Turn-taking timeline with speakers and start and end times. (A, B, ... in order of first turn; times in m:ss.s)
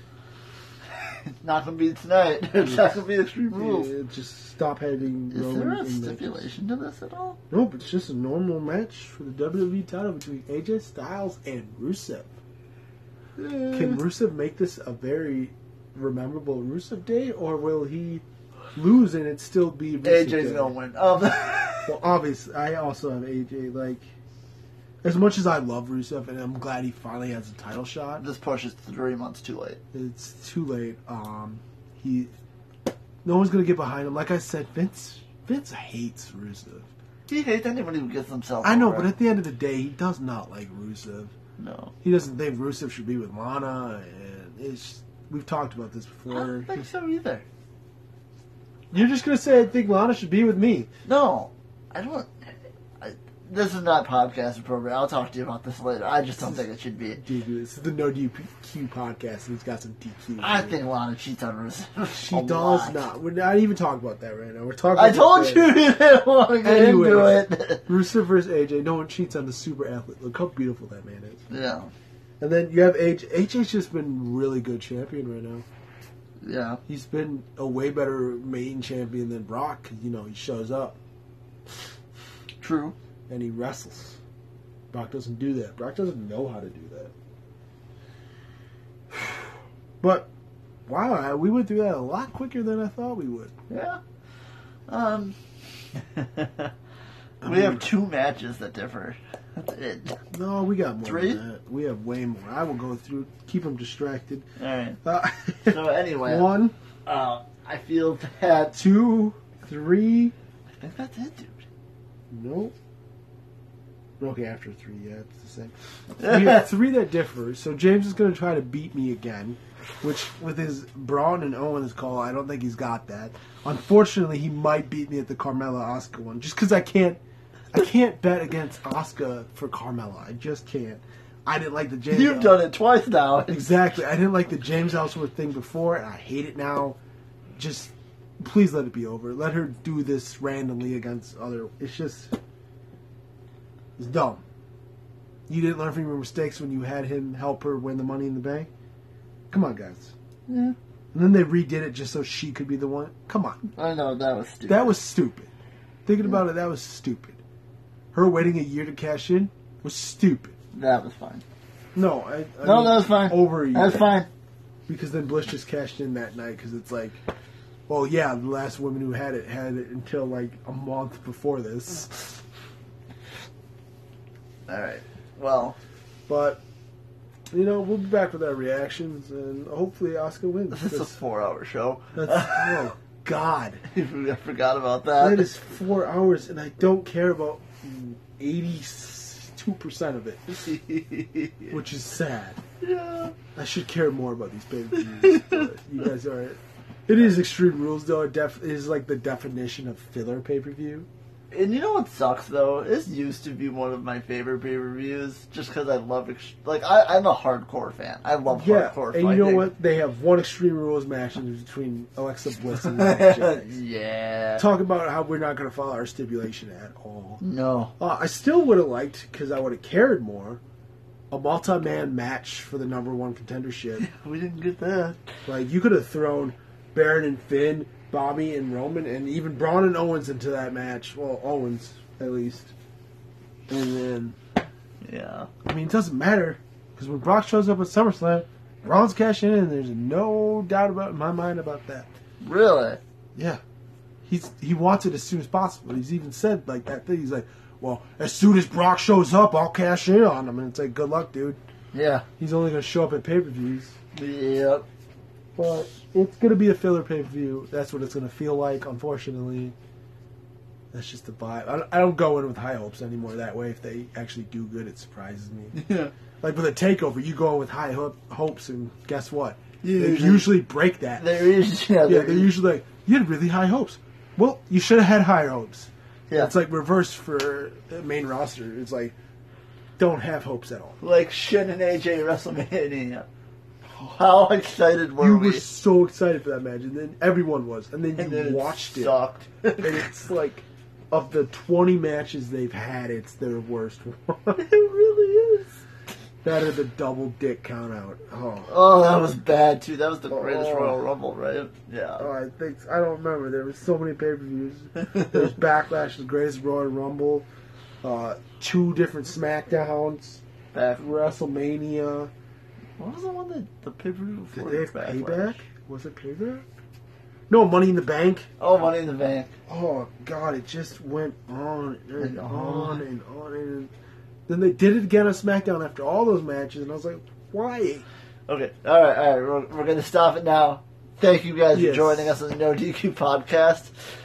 0:01.0-0:03.9 A
0:03.5-0:06.3 B
0:05.3-0:07.4 A
0:07.5-0:12.3 B
0:13.4-0:14.0 A
0:13.7-0:18.2 B
0:18.8-0:20.8 B
0:20.0-0:22.0 A
0:21.9-0:24.0 B
0:25.0-0:28.2 B
0:28.2-0:29.8 A
0:29.9-0:32.3 B
0:33.2-0:36.9 B
0:37.3-0:39.2 A
0:38.6-0:41.3 B
0:41.6-0:41.9 A
0:42.0-0:46.8 B
0:46.3-0:47.4 A
0:48.9-0:50.9 B
0:51.1-0:57.2 A
0:57.2-1:00.8 B
1:00.4-1:03.1 A
1:02.1-1:05.8 B
1:04.9-1:07.9 A
1:06.6-1:11.4 B
1:11.5-1:11.9 A
1:12.4-1:15.7 B
1:16.4-1:16.8 A
1:16.9-1:21.0 B
1:22.6-1:23.0 A
1:23.3-1:24.2 B
1:24.9-1:27.1 B
1:30.0-1:30.3 B
1:30.9-1:33.5 B
1:33.7-1:34.0 A
1:34.9-1:35.4 A
1:36.0-1:36.7 A
1:37.4-1:37.9 B
1:37.4-1:40.2 A
1:40.3-1:44.5 B
1:41.0-1:41.4 A
1:44.6-1:45.0 A
1:45.0-1:46.8 B
1:45.7-1:46.5 A
1:47.1-1:48.8 A
1:48.7-1:50.3 B
1:50.8-1:51.6 A
1:52.3-1:52.7 B
1:54.2-2:07.2 B
1:56.2-1:56.6 A
2:07.7-2:12.7 B
2:12.1-2:14.0 A
2:13.5-2:17.0 B
2:17.6-2:22.3 B
2:24.0-2:24.4 B
2:25.5-2:28.7 B
2:29.5-2:30.1 B
2:30.5-2:30.8 A
2:31.1-2:33.6 B
2:33.8-2:35.0 A
2:34.7-2:35.5 B
2:36.1-2:37.4 B
2:38.1-2:40.6 B
2:40.7-2:41.4 A
2:42.0-2:44.1 B
2:42.6-2:44.3 A
2:44.9-2:47.2 B
2:47.9-2:52.4 B
2:54.7-2:55.8 A
2:56.3-2:56.6 B
2:57.5-3:01.2 B
3:00.7-3:02.9 A
3:02.2-3:03.8 B
3:03.9-3:05.5 A
3:05.2-3:10.7 B
3:10.6-3:11.7 A
3:11.7-3:12.6 B
3:12.8-3:13.4 A
3:13.6-3:21.1 B
3:15.2-3:15.7 A
3:21.5-3:29.7 A
3:28.5-3:33.8 B
3:32.7-3:34.7 A
3:34.6-3:37.4 B
3:37.4-3:37.9 A
3:38.0-3:40.6 B
3:41.3-3:44.1 B
3:44.0-3:45.2 A
3:45.5-3:52.7 B
3:53.7-3:54.4 B
3:55.0-3:55.5 A
3:55.6-4:02.1 B
4:02.4-4:03.0 A
4:03.4-4:03.6 B
4:04.3-4:11.6 B
4:11.9-4:12.3 A
4:12.4-4:14.0 B
4:14.2-4:14.9 A
4:15.6-4:19.8 B
4:20.9-4:25.8 B
4:25.7-4:26.1 A
4:26.4-4:31.5 B
4:29.8-4:30.6 A
4:31.2-4:32.5 A
4:32.0-4:39.1 B
4:40.0-4:41.0 B
4:41.0-4:43.3 A
4:43.9-4:44.2 B
4:44.1-4:45.7 A
4:45.2-4:49.2 B
4:48.2-4:50.1 A
4:49.8-4:54.6 B
4:54.6-4:55.8 A
4:56.4-4:58.7 B
4:58.7-5:02.3 A
5:00.3-5:01.0 B
5:02.2-5:07.5 B
5:08.0-5:10.4 B
5:10.7-5:11.1 A
5:11.0-5:12.3 B
5:13.0-5:15.6 A
5:14.6-5:16.7 B
5:17.5-5:18.5 B
5:18.6-5:19.5 A
5:19.7-5:23.9 B
5:22.2-5:23.0 A
5:24.5-5:28.1 B
5:28.5-5:33.9 A
5:31.7-5:32.4 B